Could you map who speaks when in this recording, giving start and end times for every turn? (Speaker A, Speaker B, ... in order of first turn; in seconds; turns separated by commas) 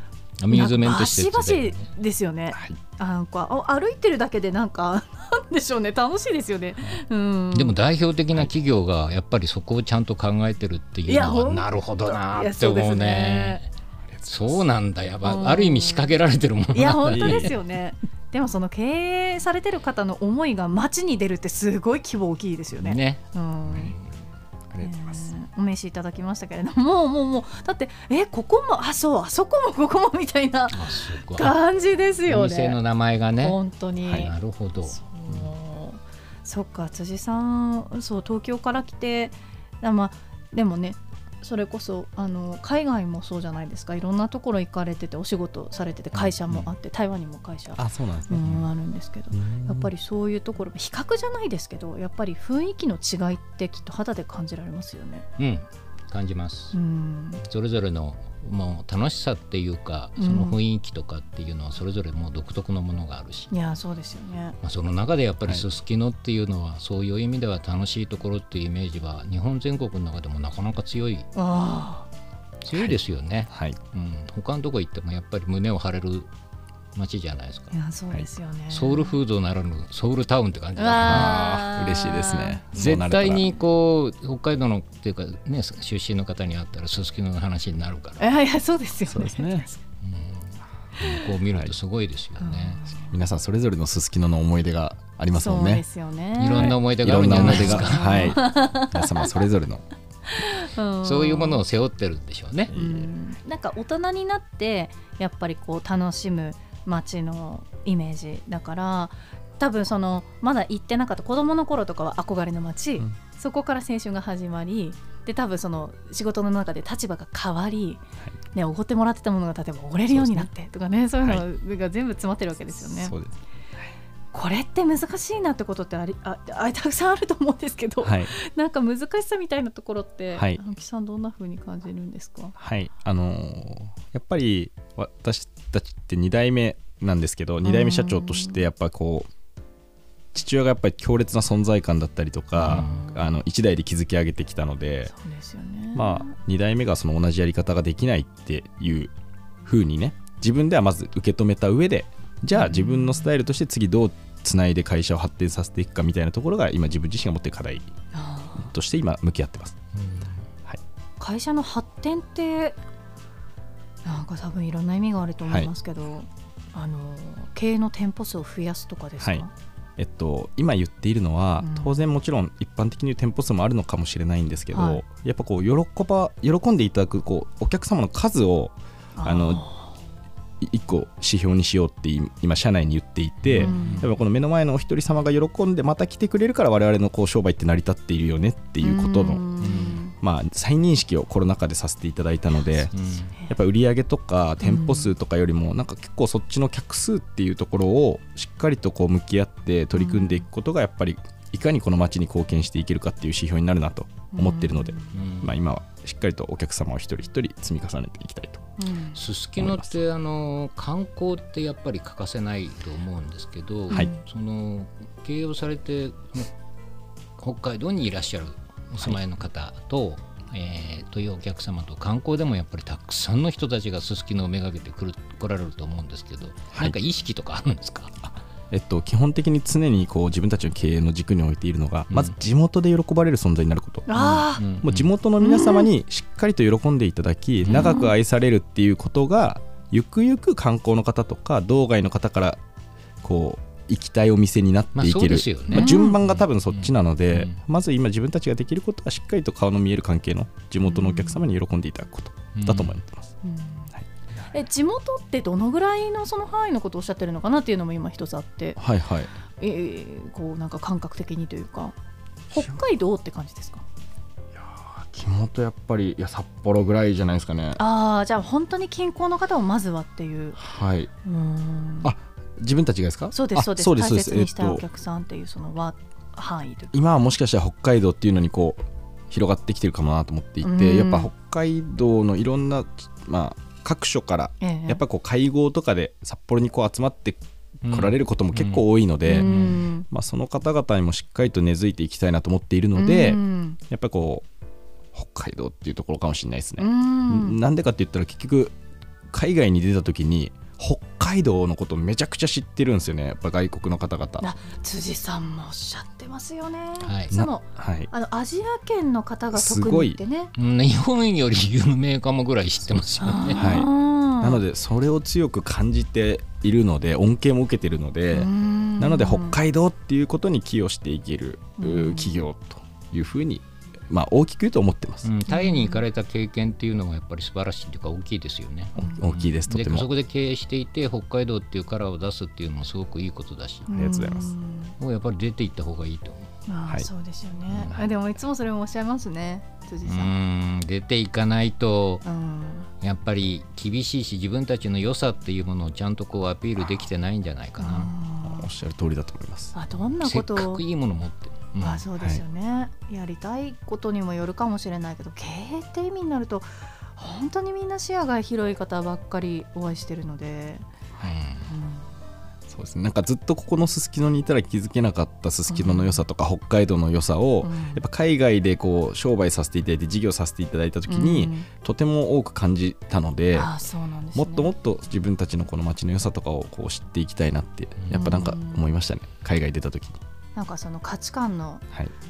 Speaker A: 0.4-1.9, Speaker B: 0.5-7.7, Speaker A: 7.5-13.7, Speaker B: 11.1-13.6, Speaker C: 14.1-14.6, Speaker A: 14.3-17.5, Speaker B: 15.2-16.1, Speaker B: 16.7-23.9, Speaker C: 17.1-17.5, Speaker A: 22.8-24.1, Speaker C: 24.7-25.3, Speaker B: 24.8-32.8, Speaker A: 30.7-31.5, Speaker A: 32.2-35.4, Speaker B: 33.4-34.3, Speaker B: 34.8-55.2, Speaker C: 46.1-46.6, Speaker C: 47.8-48.6, Speaker C: 49.3-49.9, Speaker A: 55.4-56.7, Speaker B: 56.7-57.4, Speaker A: 57.4-63.5, Speaker B: 60.2-60.6, Speaker B: 63.5-64.5, Speaker A: 64.6-71.3, Speaker B: 71.3-72.1, Speaker A: 72.6-76.3, Speaker C: 72.7-73.0, Speaker C: 73.5-73.8, Speaker A: 76.9-77.7, Speaker B: 77.7-79.2, Speaker A: 78.7-81.4, Speaker B: 80.8-82.8, Speaker C: 81.0-83.5, Speaker A: 82.7-88.2, Speaker B: 88.2-89.8, Speaker C: 89.1-89.7, Speaker A: 90.0-92.8, Speaker B: 91.0-91.2, Speaker B: 92.4-93.1, Speaker C: 93.1-95.8, Speaker B: 95.3-99.4, Speaker A: 96.4-98.4, Speaker C: 96.5-99.8, Speaker B: 100.2-101.6, Speaker A: 101.0-102.7, Speaker C: 102.7-103.1, Speaker B: 102.7-118.0, Speaker B: 118.5-123.1, Speaker C: 120.1-120.5, Speaker C: 122.8-123.8, Speaker B: 124.3-132.5, Speaker C: 128.0-128.3, Speaker C: 132.6-139.3, Speaker B: 137.6-138.7, Speaker C: 140.3-145.1, Speaker B: 142.6-143.3, Speaker B: 145.1-146.3, Speaker C: 145.9-149.1, Speaker C: 149.6-157.9, Speaker B: 152.5-153.3, Speaker B: 158.1-158.7, Speaker C: 158.6-159.8, Speaker A: 159.9-160.4, Speaker B: 161.2-162.8, Speaker B: 164.0-169.5, Speaker C: 169.2-169.4, Speaker C: 170.0-179.6, Speaker B: 171.6-172.1, Speaker B: 174.7-175.0, Speaker B: 179.2-179.9, Speaker C: 180.6-189.5, Speaker A: 183.5-184.1, Speaker B: 183.6-184.1, Speaker B: 188.8-190.1, Speaker A: 189.6-190.0, Speaker C: 190.2-192.9, Speaker A: 192.9-193.3, Speaker C: 193.5-208.6, Speaker B: 194.6-195.1, Speaker B: 199.9-200.4, Speaker B: 204.3-205.2, Speaker A: 205.1-205.5, Speaker B: 208.8-209.2, Speaker A: 209.1-216.5, Speaker C: 209.6-210.0, Speaker B: 213.9-214.2, Speaker A: 217.4-228.2, Speaker C: 228.2-234.1, Speaker B: 234.1-234.6, Speaker A: 234.1-235.1, Speaker C: 234.7-242.6, Speaker B: 235.4-235.9, Speaker A: 237.7-237.9, Speaker B: 237.7-238.1, Speaker C: 243.2-253.3, Speaker A: 244.9-247.6, Speaker B: 245.7-246.2, Speaker B: 250.8-251.4, Speaker A: 252.5-252.9, Speaker B: 253.4-253.9, Speaker B: 254.5-258.8, Speaker C: 258.8-259.3, Speaker B: 259.6-261.9, Speaker B: 262.5-263.8, Speaker C: 264.5-267.8, Speaker B: 267.8-270.6, Speaker C: 270.6-271.1, Speaker B: 271.2-272.1, Speaker C: 272.0-274.8, Speaker B: 273.3-277.0, Speaker C: 276.9-294.4, Speaker B: 280.6-281.3, Speaker B: 284.6-285.0, Speaker A: 287.8-289.8, Speaker B: 289.2-290.1, Speaker B: 292.9-293.8, Speaker C: 295.1-298.7, Speaker B: 296.8-297.6, Speaker C: 299.3-304.4, Speaker B: 304.4-310.5, Speaker A: 307.0-307.3, Speaker C: 307.3-308.1, Speaker C: 309.5-310.2, Speaker A: 310.5-313.6, Speaker C: 312.9-325.2, Speaker B: 313.2-314.6, Speaker B: 318.3-319.6, Speaker B: 321.8-322.3, Speaker A: 325.2-333.9, Speaker B: 325.5-326.0, Speaker C: 329.0-330.1, Speaker B: 333.9-334.9, Speaker C: 333.9-334.5, Speaker A: 335.0-336.5, Speaker B: 336.7-340.4, Speaker A: 337.7-338.1, Speaker A: 340.1-342.2, Speaker B: 342.2-342.9, Speaker A: 343.0-348.1, Speaker B: 347.8-348.7, Speaker C: 348.4-349.7, Speaker B: 349.7-350.8, Speaker A: 350.2-352.0, Speaker B: 351.8-360.9, Speaker A: 361.2-361.7, Speaker B: 361.7-362.1, Speaker C: 362.7-373.7, Speaker B: 365.7-366.2, Speaker B: 367.6-368.0, Speaker B: 371.1-371.7, Speaker B: 373.5-374.7, Speaker C: 374.3-380.2, Speaker B: 378.1-378.9, Speaker B: 380.6-381.8